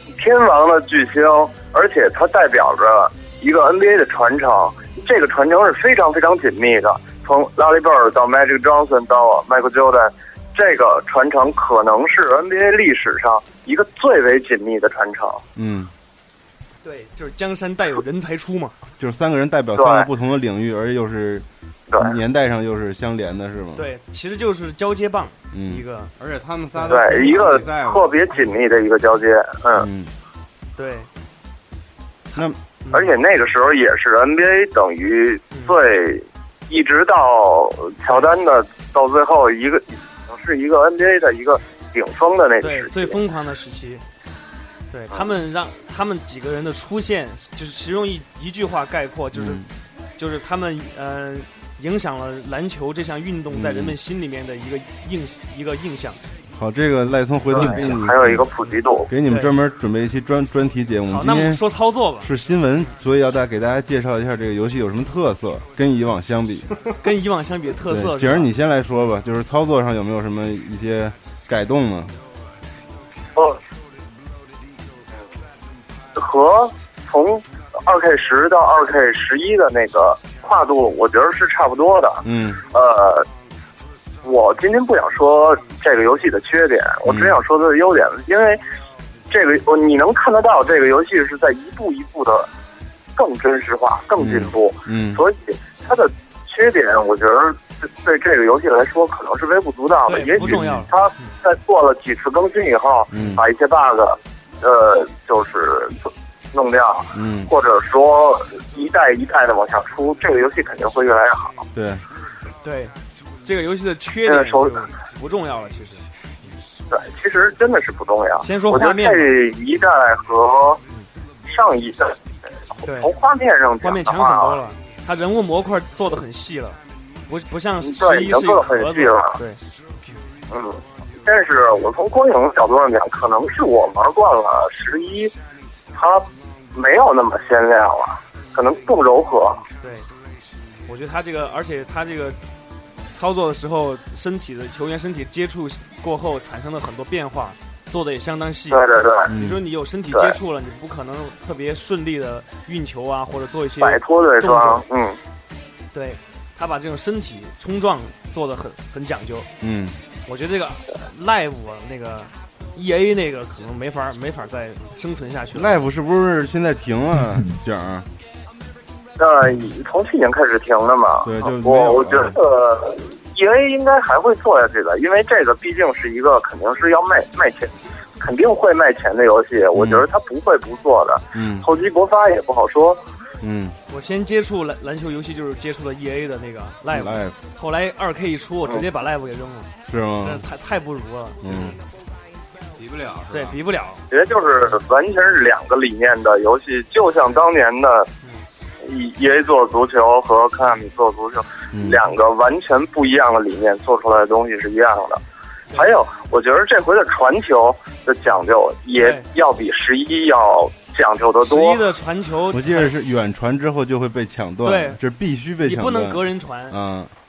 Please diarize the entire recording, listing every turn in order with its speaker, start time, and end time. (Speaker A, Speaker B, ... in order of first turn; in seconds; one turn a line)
Speaker A: 0.1-15.4
Speaker B: 15.6-15.9
Speaker C: 16.8-18.8
Speaker B: 19.0-23.9
Speaker A: 19.8-20.1
Speaker A: 21.9-22.1
Speaker C: 23.7-26.1
Speaker B: 25.5-25.8
Speaker D: 26.2-28.1
Speaker C: 26.7-27.3
Speaker A: 26.9-29.9
Speaker B: 29.8-30.1
Speaker C: 30.8-31.1
Speaker C: 32.3-33.2
Speaker A: 32.9-43.2
Speaker C: 35.5-35.8
Speaker C: 42.6-44.0
Speaker C: 44.9-49.6
Speaker B: 49.3-49.7
Speaker C: 50.2-56.2
Speaker B: 53.5-54.0
Speaker B: 56.5-58.5
Speaker A: 57.5-59.1
Speaker B: 59.1-61.6
Speaker C: 59.2-59.5
Speaker C: 61.1-62.3
Speaker B: 62.2-66.7
Speaker C: 67.0-68.5
Speaker B: 67.8-72.1
Speaker A: 76.2-83.3
Speaker B: 82.2-82.6
Speaker A: 84.2-88.6
Speaker B: 87.0-87.4
Speaker A: 89.3-92.5
Speaker A: 93.2-111.6
Speaker B: 94.2-95.2
Speaker C: 100.1-101.4
Speaker B: 100.4-100.8
Speaker B: 103.1-103.4
Speaker B: 107.1-107.5
Speaker B: 111.7-112.0
Speaker C: 112.6-116.0
Speaker A: 114.2-114.9
Speaker A: 116.9-120.8
Speaker C: 118.4-119.3
Speaker A: 121.5-122.2
Speaker A: 122.7-124.6
Speaker C: 122.8-123.1
Speaker C: 123.8-129.6
Speaker A: 127.8-129.4
Speaker A: 130.5-135.3
Speaker A: 135.9-139.6
Speaker C: 139.8-140.1
Speaker C: 140.8-142.4
Speaker C: 143.1-154.8
Speaker A: 148.7-149.3
Speaker B: 149.3-149.6
Speaker A: 153.8-155.2
Speaker C: 155.9-159.5
Speaker B: 159.6-159.9
Speaker C: 160.3-165.8
Speaker B: 165.5-168.1
Speaker A: 169.2-183.0
Speaker B: 171.2-172.4
Speaker B: 179.7-180.1
Speaker B: 181.3-181.7
Speaker B: 183.4-183.8
Speaker C: 183.9-191.8
Speaker B: 186.9-187.3
Speaker B: 189.9-190.4
Speaker B: 191.4-191.8
Speaker D: 192.8-193.6
Speaker C: 193.3-194.0
Speaker A: 194.1-198.1
Speaker A: 198.8-205.2
Speaker B: 201.7-202.0
Speaker C: 205.7-206.0
Speaker A: 205.7-211.9
Speaker C: 209.0-209.3
Speaker C: 211.4-212.9
Speaker B: 212.5-217.1
Speaker C: 214.6-215.0
Speaker C: 215.6-216.8